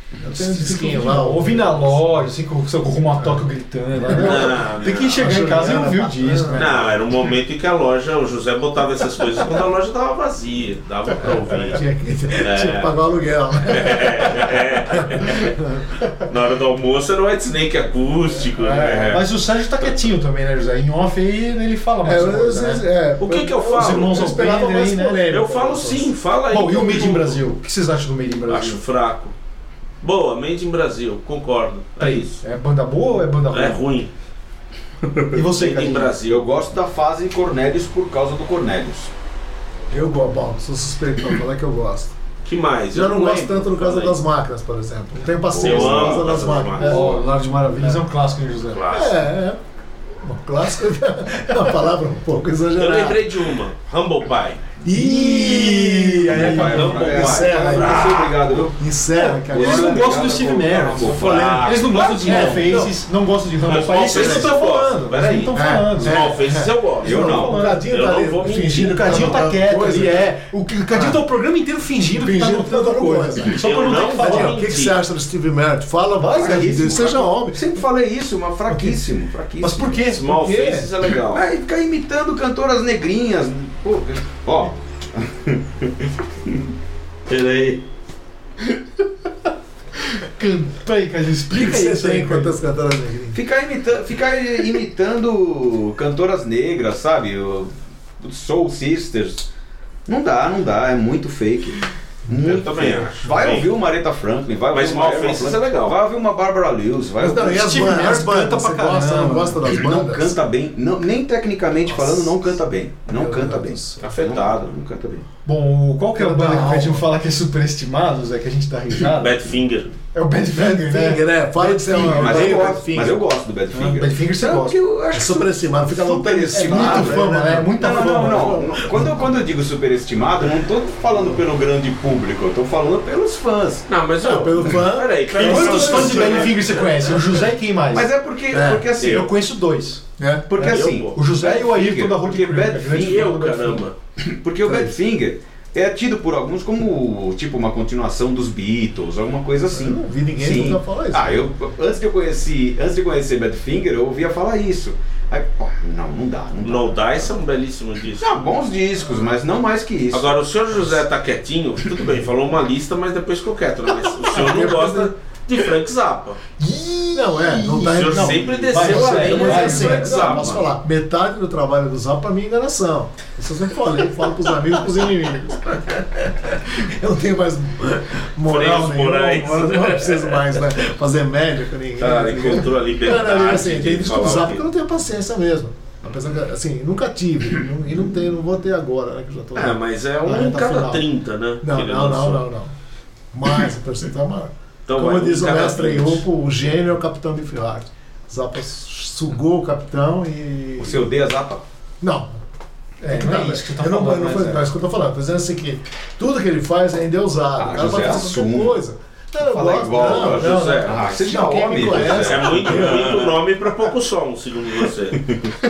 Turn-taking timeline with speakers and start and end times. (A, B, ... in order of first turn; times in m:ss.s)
0:00.2-0:02.1 A
0:00.3-0:06.9 B
0:04.0-0:04.6 A
0:04.1-0:05.4 C
0:05.2-0:06.7 A
0:06.5-0:11.8 C
0:11.2-0:15.9 A
0:12.4-0:12.9 C
0:13.7-0:15.5 C
0:16.2-0:19.2 C
0:18.5-0:19.2 A
0:19.1-0:22.8 B
0:22.0-0:26.1 A
0:23.2-0:24.3 C
0:23.7-0:25.2 B
0:25.3-0:27.4 C
0:26.5-0:28.8 B
0:28.5-0:29.3 C
0:30.0-0:32.4 C
0:32.0-0:33.8 B
0:33.5-0:34.1 C
0:35.1-0:36.4 C
0:35.3-0:36.1 B
0:36.2-0:39.1 D
0:39.9-0:42.1 A
0:42.4-0:44.2 C
0:42.9-0:47.2 A
0:45.5-0:46.7 D
0:45.6-0:47.2 C
0:46.8-0:48.8 B
0:48.7-0:49.1 C
0:48.9-0:49.6 A
0:50.2-0:53.4 A
0:52.7-0:54.6 C
0:54.8-1:00.3 A
0:54.9-0:56.8 B
0:55.4-0:58.8 D
0:56.5-0:58.6 C
0:59.1-1:06.3 B
0:59.4-1:02.7 D
1:01.0-1:02.9 A
1:01.4-1:02.7 C
1:03.6-1:09.4 C
1:04.1-1:04.5 A
1:05.5-1:10.4 A
1:07.0-1:07.7 D
1:07.0-1:07.8 B
1:08.7-1:14.6 B
1:10.9-1:11.2 A
1:12.0-1:17.7 A
1:13.6-1:15.0 C
1:16.2-1:16.9 B
1:16.3-1:20.1 D
1:18.7-1:19.0 A
1:19.6-1:20.4 B
1:20.0-1:21.4 C
1:20.2-1:20.9 A
1:21.3-1:26.6 D
1:27.3-1:27.8 C
1:30.1-1:32.5 B
1:31.5-1:33.4 A
1:33.3-1:39.4 D
1:40.0-1:47.9 D
1:42.4-1:43.7 C
1:44.7-1:46.0 C
1:47.2-1:50.4 A
1:47.4-1:49.6 B
1:49.7-1:55.2 D
1:51.8-1:52.6 A
1:53.1-1:54.0 A
1:54.0-1:54.7 C
1:55.4-1:59.4 B
1:56.1-1:57.1 A
1:59.1-1:59.9 C
2:00.1-2:02.7 B
2:00.5-2:03.2 A
2:01.9-2:13.8 D
2:03.7-2:04.8 B
2:05.1-2:09.2 A
2:06.5-2:08.7 B
2:13.9-2:16.9 C
2:14.2-2:16.9 A
2:15.3-2:18.1 B
2:15.5-2:16.6 D
2:17.9-2:19.3 D
2:18.5-2:18.8 A
2:19.0-2:19.3 C
2:19.0-2:20.0 B
2:20.2-2:20.5 A
2:20.5-2:23.3 D
2:20.5-2:21.2 C
2:20.7-2:23.9 B
2:22.9-2:23.9 C
2:24.2-2:37.1 D
2:24.6-2:24.9 A
2:29.7-2:31.5 A
2:36.6-2:38.5 C
2:38.2-2:40.4 D
2:40.1-2:46.4 C
2:44.2-2:45.1 A
2:46.6-2:50.5 B
2:47.1-3:11.0 A
2:47.8-2:50.7 C
2:58.4-3:00.6 C
3:02.0-3:04.6 C
3:09.5-3:12.4 C
3:11.6-3:12.7 A
3:13.3-3:21.1 A
3:14.9-3:16.2 C
3:20.8-3:21.6 D
3:22.0-3:22.4 A
3:23.0-3:24.7 B
3:23.0-3:33.4 A
3:27.6-3:28.8 D
3:29.4-3:33.4 D
3:29.9-3:31.2 C
3:31.9-3:35.2 C